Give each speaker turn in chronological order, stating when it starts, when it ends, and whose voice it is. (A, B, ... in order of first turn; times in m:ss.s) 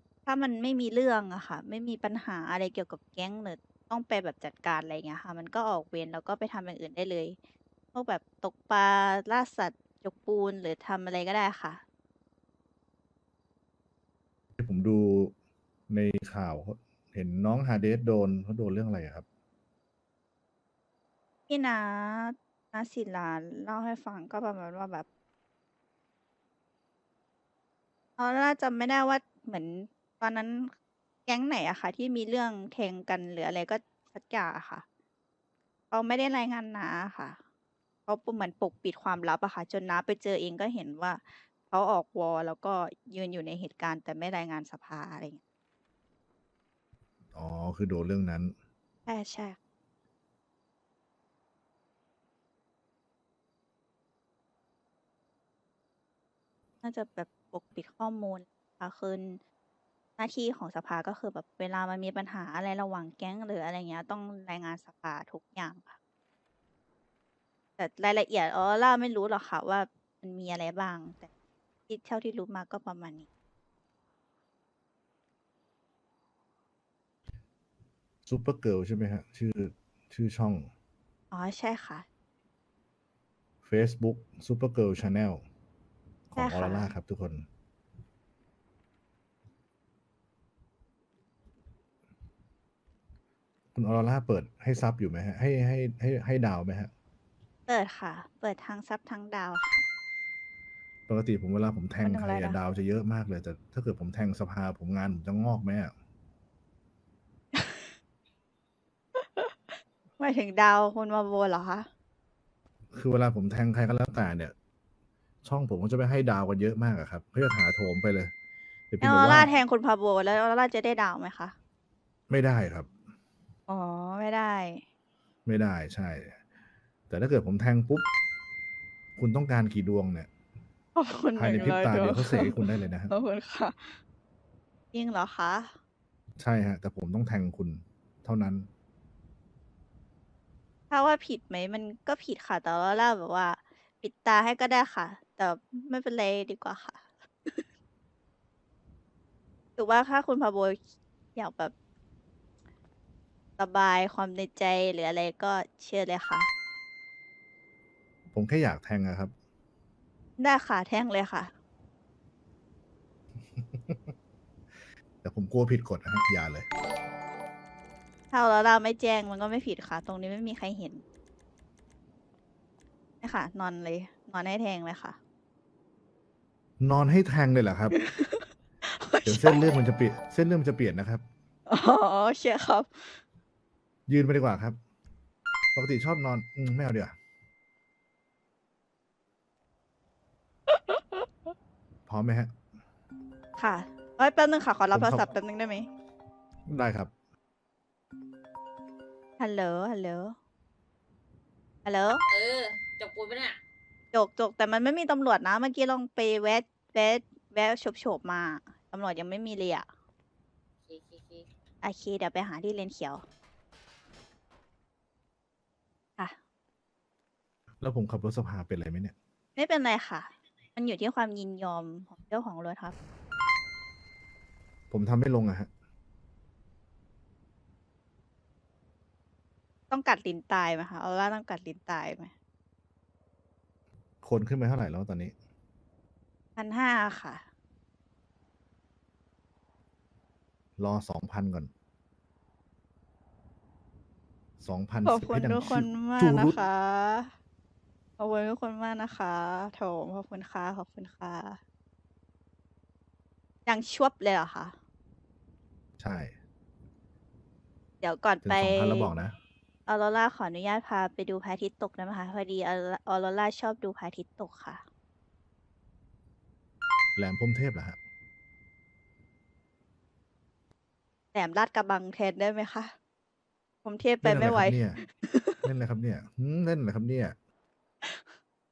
0:00.2-0:07.4 A
0:07.9-0:11.8 A
0:14.6-0:15.3 B
0:15.9-0:19.2 B
0:21.5-0:25.0 A
0:28.2-0:30.7 A
0:31.2-0:34.8 A
0:35.9-0:37.4 A
0:38.1-0:45.4 A
0:47.3-0:48.5 B
0:49.1-0:49.6 A
0:56.8-0:59.4 A
1:00.2-1:05.9 A
1:07.8-1:11.3 A
1:11.9-1:13.2 A
1:18.2-1:20.7 B
1:21.3-1:22.0 A
1:23.6-1:25.4 B
1:26.3-1:27.4 B
1:26.4-1:26.9 A
1:33.7-1:36.9 B
1:37.7-1:39.8 A
1:41.1-1:45.9 B
1:42.0-1:42.6 A
1:47.5-1:47.9 A
1:49.2-1:49.6 A
1:50.2-1:51.9 A
1:52.9-1:54.5 B
1:55.4-1:58.3 B
1:58.9-1:59.6 B
1:59.0-2:01.5 A
2:02.3-2:02.9 B
2:03.7-2:04.8 A
2:05.4-2:06.4 B
2:07.1-2:08.1 B
2:09.2-2:10.3 B
2:10.9-2:14.0 A
2:11.4-2:13.1 B
2:14.9-2:15.7 A
2:16.4-2:18.7 B
2:20.9-2:27.6 A
2:29.8-2:30.8 A
2:31.3-2:31.7 A
2:33.6-2:36.5 A
2:38.3-2:39.3 B
2:40.4-2:41.5 A
2:43.5-2:44.1 B
2:45.2-2:46.7 B
2:48.3-2:51.0 A
2:53.2-2:55.2 A
2:56.8-2:58.0 B
2:57.9-2:59.6 A
2:59.2-3:01.2 B
3:01.7-3:03.2 A
3:04.1-3:04.8 B
3:05.7-3:07.1 B
3:10.7-3:11.5 A
3:12.1-3:12.5 B
3:13.6-3:15.9 A
3:14.9-3:15.3 B
3:16.7-3:17.1 B
3:19.4-3:20.4 A
3:21.8-3:22.2 A
3:22.3-3:23.6 C
3:24.1-3:29.9 A
3:30.8-3:31.5 C
3:31.8-3:33.2 A
3:37.8-3:39.1 B
3:39.6-3:42.9 A
3:44.9-3:45.7 B
3:49.9-3:52.3 A
3:54.2-3:55.3 B
3:56.6-3:57.4 A
4:00.8-4:01.7 B
4:04.6-4:06.6 B
4:05.0-4:07.3 A
4:08.2-4:11.6 A
4:13.6-4:14.8 A
4:16.0-4:16.3 B
4:18.0-4:19.1 A
4:18.4-4:19.4 B
4:19.9-4:24.8 A
4:27.2-4:28.0 B
4:31.3-4:32.9 A
4:33.8-4:35.6 A
4:34.2-4:35.0 B
4:35.6-4:37.4 B
4:38.0-4:38.3 A